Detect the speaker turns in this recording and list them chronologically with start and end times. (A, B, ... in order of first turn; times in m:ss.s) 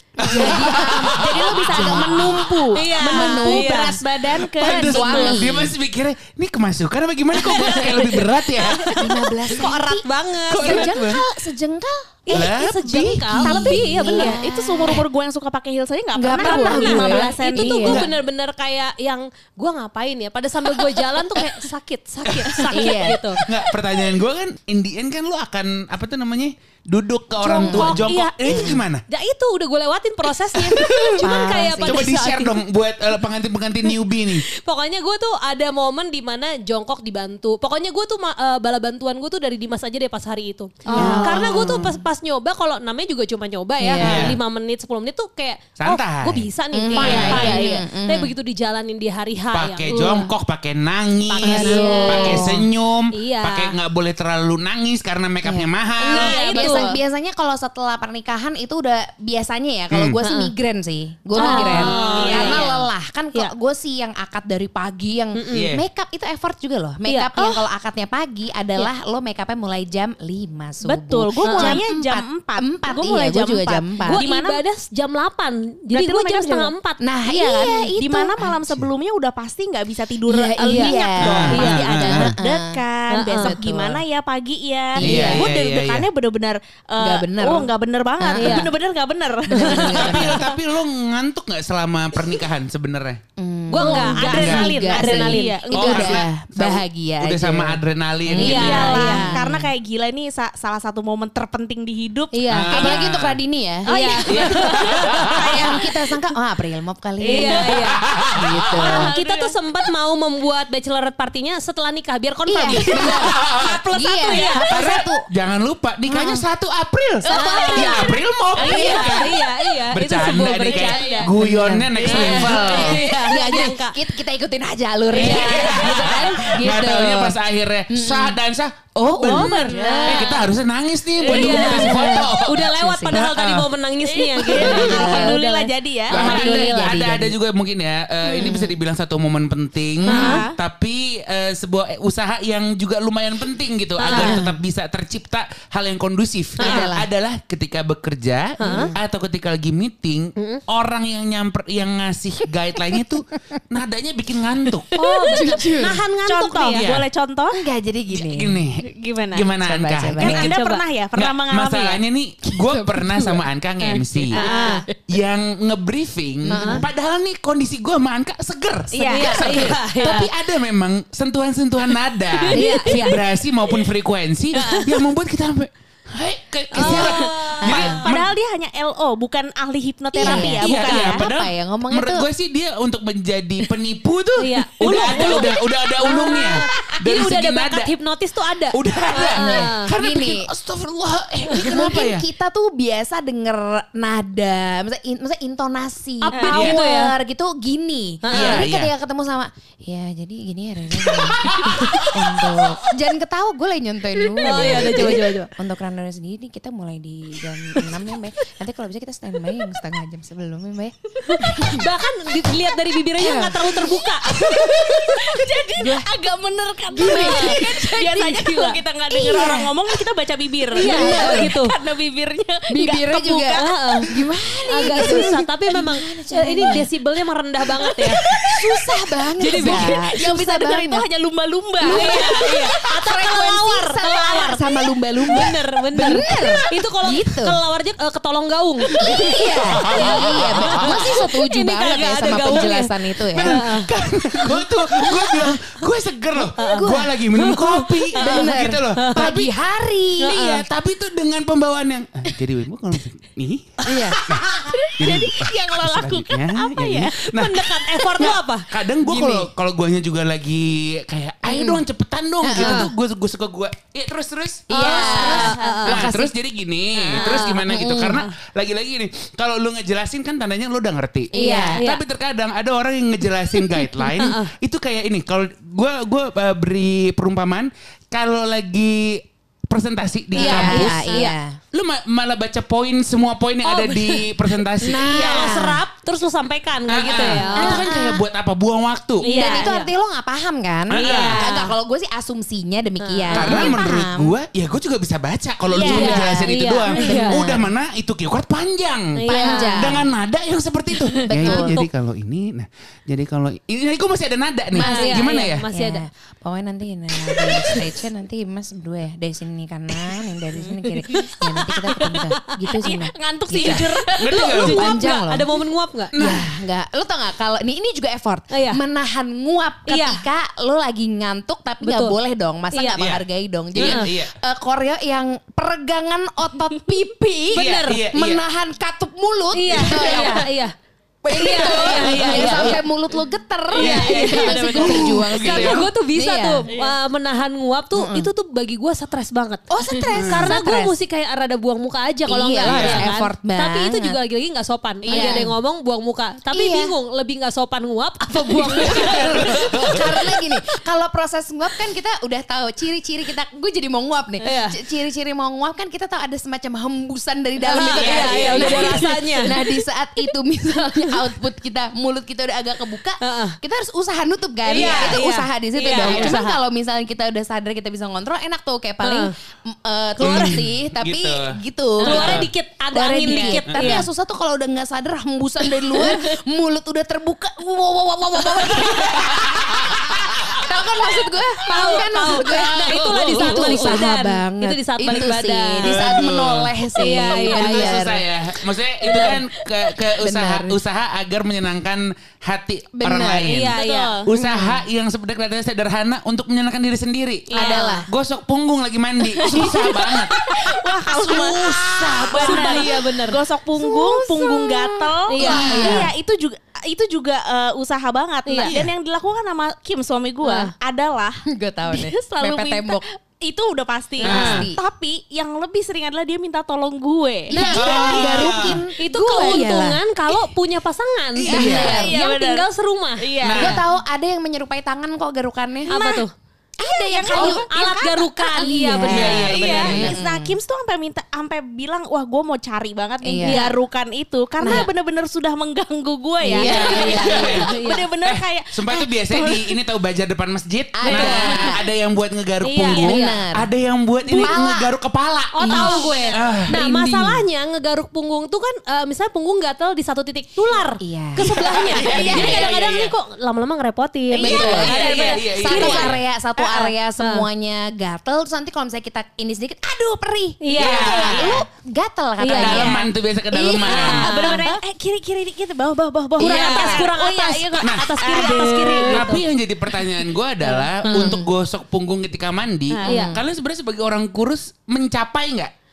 0:00.2-0:02.6 A
0:00.2-0:05.7 B
0:00.4-0:05.5 C
0:02.7-0:04.0 D
0:04.5-0:08.9 A
0:07.4-0:10.9 D
0:08.9-0:15.0 B
0:10.6-0:11.2 A
0:12.3-0:14.4 D
0:12.3-0:12.8 A
0:13.4-0:18.0 C
0:16.2-0:18.0 B
0:16.4-0:23.4 D
0:22.7-0:23.2 B
0:23.4-0:29.0 A
0:27.4-0:28.8 B
0:27.5-0:28.8 C
0:29.1-0:32.6 D
0:30.7-0:31.2 A
0:31.2-0:32.1 B
0:31.8-0:34.4 A
0:34.5-0:50.2 D
0:40.9-0:41.3 C
0:40.9-0:42.0 B
0:40.9-0:41.4 A
0:43.8-0:44.4 B
0:44.0-0:44.4 A
0:45.8-0:47.6 A
0:46.7-0:48.3 B
0:46.9-0:47.9 C
0:49.5-0:56.3 A
0:51.3-0:52.6 D
0:51.4-0:52.7 B
0:51.8-0:52.4 C
0:53.1-0:53.8 D
0:55.4-1:14.2 B
0:56.1-0:57.0 C
0:56.2-0:56.9 D
0:59.9-1:00.2 A
1:00.2-1:00.5 D
1:01.4-1:02.7 D
1:01.4-1:02.8 C
1:01.7-1:02.7 A
1:05.3-1:05.6 D
1:05.5-1:05.8 A
1:07.0-1:07.6 D
1:10.8-1:14.6 C
1:11.5-1:11.8 D
1:14.1-1:17.0 D
1:15.9-1:16.7 C
1:17.0-1:18.5 B
1:17.3-1:30.5 C
1:20.3-1:22.8 B
1:20.6-1:21.0 D
1:21.2-1:22.3 A
1:21.5-1:22.3 D
1:23.1-1:23.5 D
1:23.4-1:24.0 B
1:25.0-1:25.5 B
1:25.0-1:26.1 A
1:27.0-1:27.7 B
1:28.2-1:28.7 B
1:28.4-1:28.7 D
1:29.5-1:30.5 B
1:29.5-1:30.2 D
1:30.0-1:33.2 A
1:33.4-1:39.7 B
1:33.7-1:35.6 D
1:33.8-1:36.3 C
1:34.3-1:34.7 A
1:35.7-1:39.0 A
1:38.4-1:43.0 C
1:38.4-1:39.3 D
1:42.3-1:42.9 D
1:42.5-1:43.4 A
1:42.7-1:43.9 B
1:43.9-1:46.2 C
1:43.9-1:45.4 D
1:44.3-1:45.4 A
1:45.3-1:49.1 B
1:47.2-1:48.0 D
1:47.2-1:47.7 C
1:47.9-1:48.6 A
1:48.8-1:49.5 C
1:48.8-1:54.7 D
1:52.5-1:55.3 B
1:52.9-1:53.8 A
1:54.7-1:59.3 A
1:56.1-1:56.4 B
1:57.2-1:59.2 B
1:57.3-1:59.2 C
1:57.3-1:57.9 D
1:58.6-2:01.3 D
1:59.9-2:03.0 A
2:00.7-2:01.3 C
2:01.3-2:07.4 B
2:02.0-2:02.7 C
2:02.1-2:04.0 D
2:05.1-2:06.0 C
2:05.1-2:06.5 D
2:05.2-2:13.7 A
2:07.9-2:08.4 B
2:09.1-2:10.3 B
2:09.2-2:10.4 C
2:09.9-2:10.2 D
2:11.2-2:12.0 C
2:11.3-2:15.7 D
2:11.4-2:13.2 B
2:14.0-2:16.7 C
2:14.5-2:15.4 B
2:16.1-2:17.3 B
2:16.1-2:34.9 A
2:16.4-2:16.9 D
2:18.3-2:18.8 B
2:20.1-2:20.5 C
2:20.1-2:20.4 D
2:20.1-2:20.4 B
2:24.0-2:24.4 D
2:24.1-2:24.6 B
2:26.6-2:26.9 D
2:26.6-2:27.0 B
2:28.6-2:28.9 D
2:28.6-2:29.0 B
2:30.4-2:30.6 D
2:35.0-2:36.9 D
2:35.0-2:37.6 C
2:35.3-2:36.0 B
2:36.8-2:37.1 A
2:37.6-2:38.6 B
2:38.1-2:40.6 A
2:38.9-2:39.5 C
2:39.6-2:40.5 B
2:40.2-2:42.0 C
2:40.5-2:40.8 D
2:41.1-2:44.4 A
2:42.7-2:43.4 B
2:43.8-2:44.8 D
2:44.3-2:44.8 C
2:44.4-2:44.8 B
2:45.1-2:58.3 A
2:46.4-2:46.8 B
2:46.5-2:46.8 D
2:48.9-2:49.7 C
2:49.0-2:50.3 D
2:49.2-2:50.2 B
2:52.5-2:53.0 D
2:52.6-2:53.1 B
2:54.6-2:54.8 D
2:56.7-2:58.0 D
2:56.8-3:01.3 C
2:57.7-2:58.0 B
3:00.2-3:02.2 B
3:00.3-3:07.9 A
3:04.4-3:09.9 D
3:04.8-3:05.6 C
3:08.7-3:12.3 A
3:09.3-3:10.5 B
3:11.6-3:31.9 B
3:16.2-3:17.1 D
3:16.5-3:16.8 A
3:18.2-3:18.7 D
3:18.3-3:18.9 A
3:21.1-3:22.0 A
3:21.6-3:22.1 D
3:24.4-3:25.5 D
3:31.3-3:34.3 D
3:33.2-3:36.1 B
3:34.2-3:44.3 C
3:36.9-3:38.6 B
3:37.0-3:37.6 D
3:38.3-3:38.8 D
3:39.1-3:40.0 B
3:40.7-3:41.5 B
3:40.8-3:41.7 D
3:42.7-3:46.9 B
3:43.5-3:44.1 D
3:44.7-3:48.2 D
3:44.9-3:45.3 C
3:48.0-3:51.1 B
3:49.4-3:50.1 D
3:49.5-3:52.6 C
3:51.8-3:57.6 B
3:51.8-4:03.9 D
3:56.0-3:56.7 C
3:59.0-4:03.6 B
4:03.3-4:09.5 A
4:06.4-4:07.1 B
4:06.6-4:09.3 D
4:08.2-4:10.4 B
4:10.2-4:10.6 D
4:10.2-4:14.4 A
4:13.9-4:14.2 B
4:14.1-4:17.2 C
4:15.0-4:45.6 A
4:17.2-4:18.7 D
4:19.0-4:19.5 B
4:21.5-4:21.8 B
4:22.4-4:22.9 B
4:22.6-4:22.9 D
4:24.7-4:26.3 B
4:24.7-4:26.1 D
4:24.8-4:26.1 C
4:27.1-4:28.3 B
4:27.1-4:27.6 D
4:31.3-4:31.8 B
4:31.3-4:32.0 D
4:33.6-4:34.5 D
4:40.3-4:41.6 B
4:40.4-4:41.4 D
4:43.6-4:44.3 D
4:44.8-4:45.8 B
4:45.0-4:47.9 D
4:46.9-4:49.3 A
4:47.1-4:48.2 B
4:49.2-4:49.9 D
4:49.2-4:54.4 B
4:50.9-4:51.5 A
4:51.0-4:51.7 D
4:53.0-4:53.8 D
4:53.3-5:05.6 A
4:55.7-4:56.1 C
4:55.8-4:57.7 B
4:55.8-4:57.5 D
4:57.0-4:57.2 C
4:59.2-4:59.9 D
4:59.3-5:00.1 B
5:01.3-5:01.8 B
5:01.4-5:01.9 D
5:04.8-5:13.8 B
5:04.8-5:06.0 D
5:10.6-5:10.9 C
5:11.0-5:12.4 D
5:12.8-5:14.4 C
5:13.5-5:14.9 A
5:13.6-5:16.1 D
5:14.5-5:15.5 B
5:16.1-5:16.5 A
5:16.2-5:30.5 B
5:18.5-5:18.8 D
5:19.9-5:20.2 D
5:21.8-5:22.2 D
5:22.7-5:23.0 D
5:23.0-5:24.4 A
5:27.5-5:28.0 D
5:27.5-5:28.4 A
5:29.5-5:30.7 D
5:31.2-5:32.8 A
5:31.3-5:36.7 B
5:31.4-5:32.8 D
5:33.7-5:35.5 C
5:33.8-5:39.6 D
5:34.8-5:35.9 A
5:38.0-5:38.3 B
5:39.7-5:40.9 B
5:40.1-5:40.6 A
5:40.2-5:49.8 D
5:42.3-5:44.2 B
5:42.6-5:43.1 A
5:45.0-5:45.5 C
5:45.1-5:45.5 B
5:46.5-5:46.9 B
5:48.4-6:28.2 B
5:48.6-5:50.2 A
5:54.4-5:54.8 D
5:57.7-5:59.8 D
5:57.7-5:59.1 A
6:03.2-6:03.6 D
6:04.7-6:06.6 D
6:04.8-6:05.2 A
6:06.0-6:06.4 A
6:09.0-6:09.3 D
6:10.2-6:10.6 D
6:10.2-6:11.5 A
6:12.0-6:14.1 D
6:12.0-6:12.5 A
6:13.7-6:14.0 A
6:19.1-6:20.7 A
6:21.7-6:26.1 D
6:22.7-6:24.0 A
6:25.8-6:40.4 A
6:27.0-6:28.0 D
6:29.0-6:29.4 C
6:30.2-6:30.8 B
6:33.0-6:33.5 B
6:33.5-6:34.2 D
6:33.8-6:34.3 C
6:34.3-6:34.8 B
6:37.5-6:38.1 C
6:37.5-6:38.1 B
6:39.3-6:59.6 C
6:39.5-6:39.9 B
6:41.1-6:42.8 A
6:41.3-6:42.8 B
6:42.3-6:43.4 D
6:43.8-6:46.1 B
6:45.3-6:46.1 D
6:45.4-6:46.1 A
6:50.4-6:50.7 D
6:51.5-6:53.0 B
6:54.2-6:54.7 A
6:54.2-6:54.8 B
6:57.5-6:57.9 D
6:57.5-7:00.0 B
6:57.7-6:58.8 A
6:59.0-7:03.2 D
7:01.4-7:02.0 A
7:01.5-7:02.2 B
7:01.6-7:03.8 C
7:03.4-7:03.8 A
7:03.6-7:06.2 B
7:05.9-7:06.3 D
7:06.8-7:07.7 B
7:06.8-7:19.7 C
7:07.3-7:09.9 D
7:08.6-7:10.5 B
7:09.0-7:10.2 A
7:13.2-7:13.6 B
7:13.4-7:13.8 D
7:14.6-7:14.9 B
7:16.4-7:17.6 B
7:16.6-7:17.7 A
7:16.6-7:18.1 D
7:18.2-7:26.8 A
7:21.0-7:21.8 B
7:21.1-7:21.6 D
7:21.2-7:21.6 C
7:22.6-7:23.4 D
7:23.0-7:23.7 B
7:24.3-7:24.6 C
7:24.4-7:24.9 B
7:25.5-7:36.1 D
7:25.6-7:27.4 B
7:31.0-7:32.5 B
7:31.4-7:33.1 A
7:31.9-7:32.7 C
7:34.3-7:37.0 C
7:34.4-7:44.8 B
7:34.4-7:36.2 A
7:37.2-7:37.5 D
7:40.6-7:41.4 D
7:40.7-7:41.6 C
7:40.8-7:41.6 A
7:42.4-7:42.9 D
7:42.6-7:43.1 C
7:42.6-7:44.4 A
7:43.7-7:49.3 C
7:43.8-7:44.7 D
7:46.4-7:49.4 D
7:46.4-7:47.1 B
7:46.4-7:46.8 A
7:47.8-7:55.7 A
7:51.0-7:51.4 D
7:51.1-7:51.5 B
7:52.9-7:53.2 C
7:53.0-7:53.4 B
7:53.1-7:53.4 D